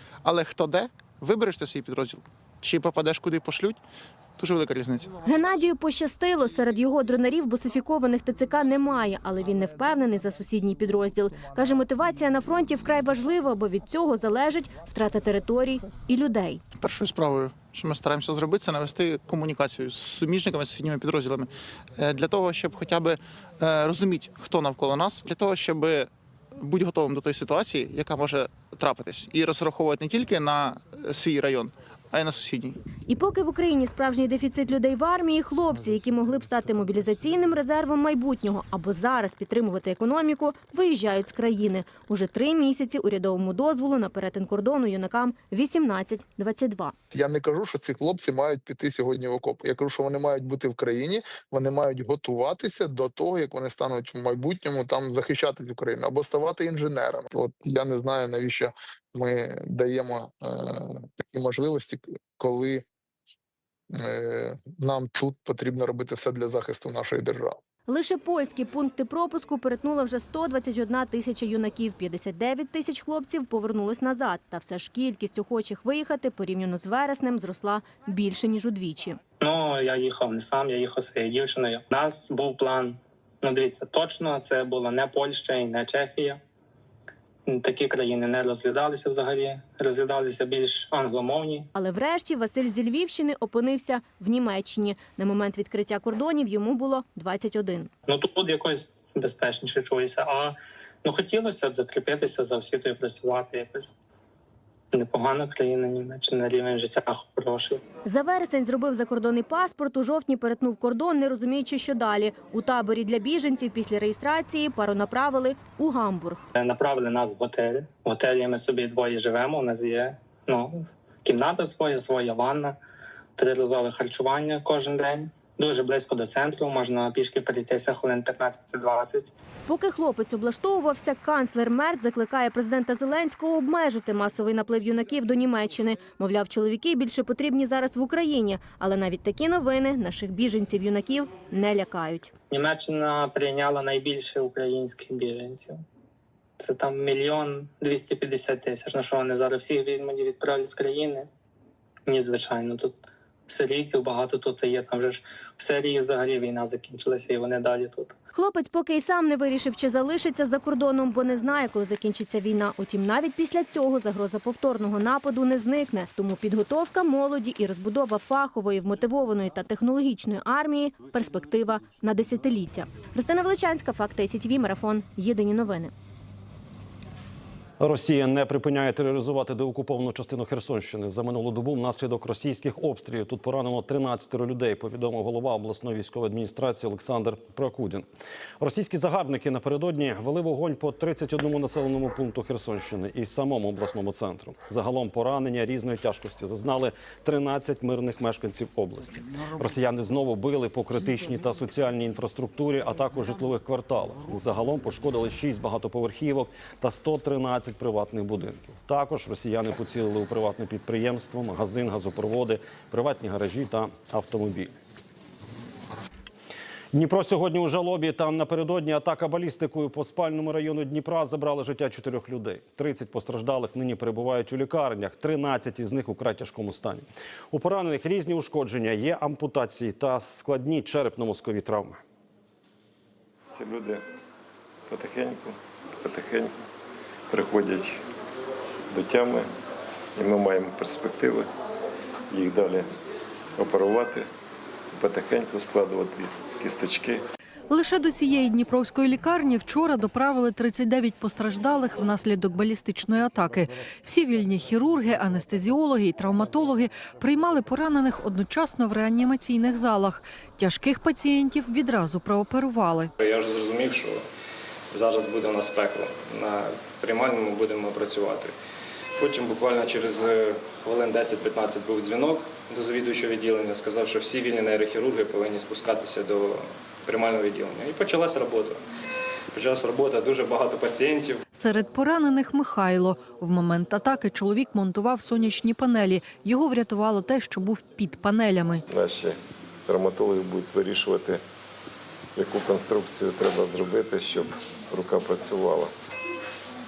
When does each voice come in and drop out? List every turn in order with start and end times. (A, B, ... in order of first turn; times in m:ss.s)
0:00.2-0:03.8 A
0:04.4-0:05.2 A
0:05.2-0:16.6 B
0:16.8-0:32.8 A
0:33.1-0:46.9 B
0:47.1-1:02.8 C
1:03.9-1:07.6 C
1:07.9-1:19.2 B
1:19.4-1:26.4 D
1:27.5-1:31.7 D
1:31.8-1:37.9 B
1:38.1-1:44.0 D
1:44.9-1:47.8 D
1:48.1-1:56.5 B
1:56.6-2:02.8 D
2:03.4-2:09.3 D
2:09.7-2:22.3 B
2:22.5-2:25.8 D
2:26.6-2:31.3 D
2:32.1-2:38.2 D
2:38.3-2:55.9 B
2:57.8-3:08.1 E
3:08.6-3:34.7 E
3:36.9-3:52.0 E
3:53.5-3:54.0 F
3:54.9-3:56.5 F
3:57.3-3:58.0 F
3:58.9-3:59.5 F
4:00.2-4:01.5 F
4:02.3-4:02.9 F
4:03.6-4:04.3 F
4:05.0-4:07.2 F
4:07.7-4:23.1 G
4:23.2-4:24.2 H
4:24.9-4:28.5 H
4:29.2-4:38.8 H
4:39.5-4:41.4 H
4:41.5-4:48.8 G
4:48.9-4:51.4 F
4:52.4-4:55.9 F